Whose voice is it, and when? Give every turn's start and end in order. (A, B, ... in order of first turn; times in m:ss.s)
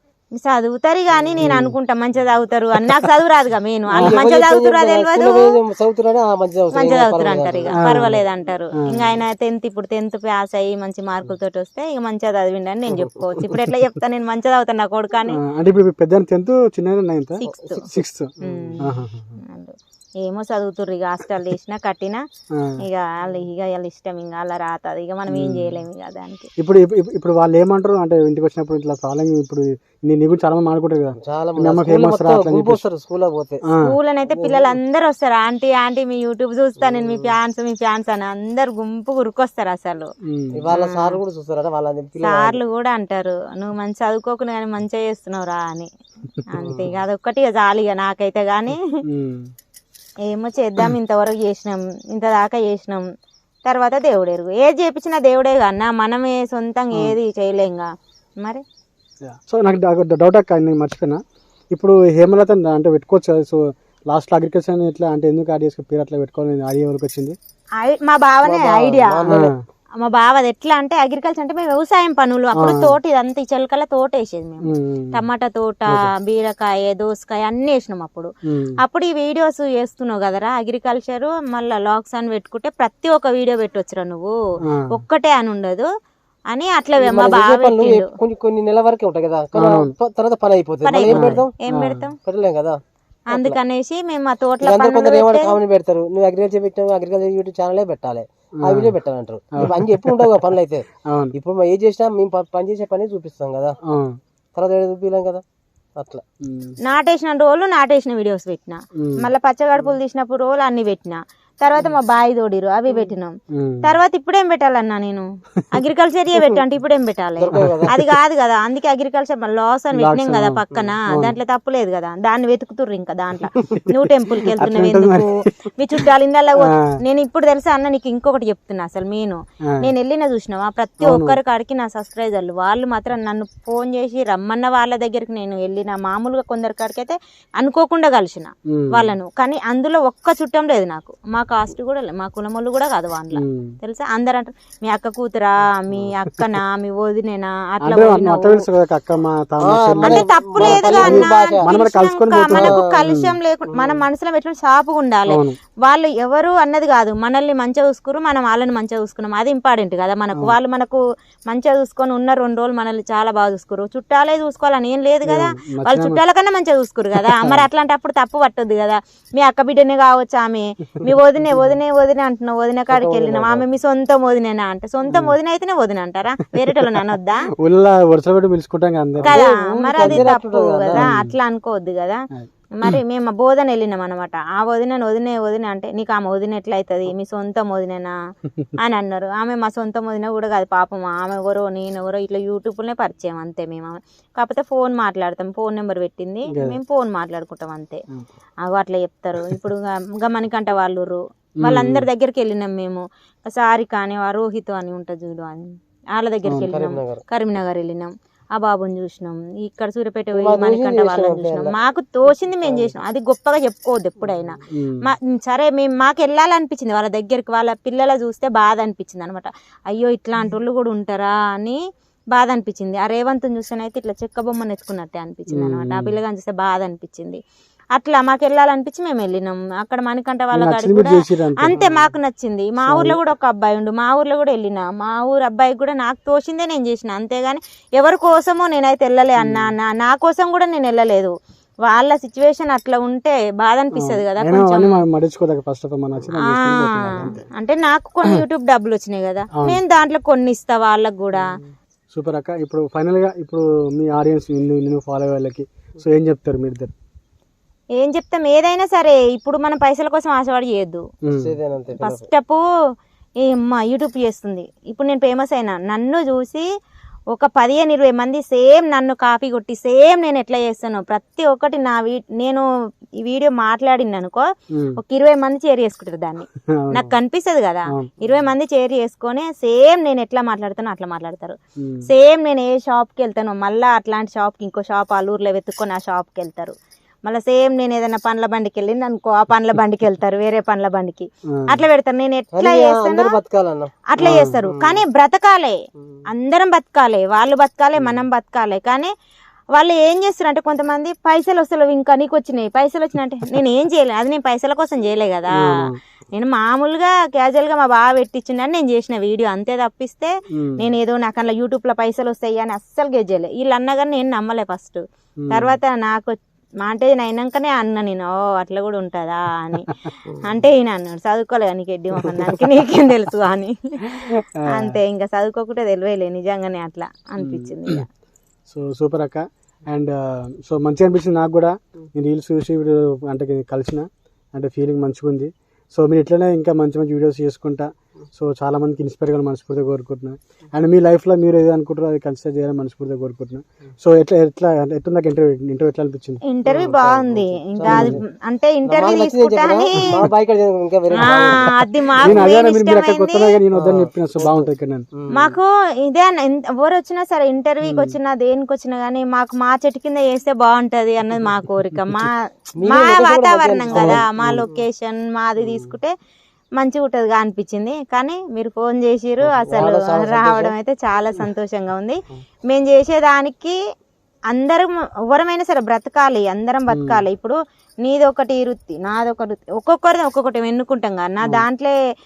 0:00.3-0:05.6 A
0:01.1-0:01.5 B
0:01.4-0:01.7 C
0:03.9-0:07.7 B
0:06.7-0:15.4 A
0:07.7-0:08.2 C
0:08.8-0:09.1 C
0:15.3-0:19.3 C
0:17.4-0:17.9 A
0:17.5-0:18.8 B
0:18.4-0:22.2 A
0:22.5-0:22.8 C
0:22.8-0:26.5 A
0:25.3-0:25.7 C
0:26.6-0:32.8 C
0:31.2-0:33.6 B
0:33.8-0:40.1 A
0:34.3-0:34.8 B
0:36.8-0:37.3 B
0:40.2-0:40.6 C
0:40.5-0:42.6 B
0:40.7-0:41.2 A
0:42.2-0:45.9 A
0:46.4-0:48.8 A
0:46.6-0:46.9 C
0:49.1-0:49.5 C
0:50.3-0:53.1 A
0:53.6-0:58.6 A
0:59.2-1:07.4 C
1:07.8-1:09.4 A
1:08.4-1:09.5 B
1:09.3-1:09.6 C
1:10.0-1:24.3 A
1:12.5-1:12.9 C
1:14.6-1:15.2 C
1:18.4-1:18.8 C
1:24.6-1:24.9 C
1:24.9-1:25.9 A
1:26.5-1:28.1 A
1:27.0-1:31.5 B
1:29.5-1:29.9 C
1:30.8-1:32.2 A
1:31.1-1:32.1 C
1:32.2-1:32.8 B
1:33.3-1:35.6 A
1:33.3-1:33.6 B
1:34.6-1:43.8 B
1:38.6-1:38.9 C
1:39.6-1:40.4 C
1:41.0-1:41.3 C
1:43.8-1:44.2 C
1:44.6-1:45.4 B
1:46.0-1:46.2 B
1:46.4-1:46.8 C
1:46.8-2:28.6 A
1:49.0-1:49.3 C
1:53.5-1:54.0 C
1:57.4-1:57.9 B
1:57.5-1:57.9 C
1:59.9-2:01.4 C
2:03.8-2:06.0 C
2:06.6-2:06.9 C
2:11.0-2:11.4 C
2:18.7-2:19.1 C
2:23.3-2:23.7 C
2:27.8-2:33.3 C
2:29.6-2:31.7 B
2:30.0-2:57.5 A
2:32.5-2:32.8 B
2:33.7-2:34.0 B
2:35.3-2:35.6 C
2:45.2-2:46.2 C
2:47.2-2:47.6 C
2:52.9-2:53.6 B
2:55.1-2:55.3 C
2:56.6-2:56.9 C
2:57.6-2:59.4 C
2:59.2-3:01.1 B
2:59.2-3:08.1 A
3:00.9-3:01.3 C
3:02.3-3:03.0 C
3:08.8-3:18.0 A
3:16.5-3:16.8 C
3:18.6-3:41.8 A
3:21.6-3:22.0 C
3:26.5-3:26.7 C
3:26.6-3:27.2 B
3:30.3-3:31.7 B
3:32.6-3:32.9 B
3:34.3-3:34.6 B
3:34.7-3:35.1 C
3:42.3-3:47.4 A
3:45.5-3:46.2 C
3:47.9-4:01.3 A
3:50.5-3:51.8 C
3:51.8-3:52.0 B
3:52.9-3:53.2 C
3:59.4-3:59.7 C
4:01.8-4:05.0 A
4:03.9-4:07.4 C
4:06.4-4:11.6 A
4:09.5-4:09.8 C
4:12.1-4:16.9 C
4:18.0-4:21.0 A
4:21.2-4:21.6 C
4:21.3-4:22.3 B
4:22.0-4:22.6 A
4:23.4-4:26.6 A
4:27.3-4:32.6 A
4:33.2-4:34.4 A
4:34.7-4:35.0 C
4:35.0-4:53.4 A
4:36.6-4:37.1 C
4:37.9-4:38.2 C
4:41.8-4:42.1 C
4:51.4-4:51.8 C
4:52.5-4:54.0 B
4:54.1-4:59.1 A
4:54.2-4:54.6 C
4:54.6-4:55.0 B
4:59.7-5:05.7 A
5:05.6-5:06.0 C
5:06.3-5:28.0 A
5:10.5-5:10.8 C
5:15.4-5:15.8 C
5:22.2-5:22.8 C
5:24.1-5:25.0 C
5:27.4-5:28.0 C
5:28.7-5:46.4 C
5:46.4-5:50.3 A
5:46.6-5:48.2 B
5:47.9-5:48.2 C
5:48.8-5:51.7 B
5:51.2-5:55.0 C
5:51.2-5:53.6 A
5:53.7-5:55.6 B
5:55.3-6:06.1 A
5:57.8-5:58.2 C
6:02.0-6:02.3 C
6:02.8-6:04.8 B
6:03.9-6:04.7 C
6:06.8-6:13.8 A
6:09.4-6:10.7 B
6:14.5-6:22.0 A
6:16.9-6:17.2 C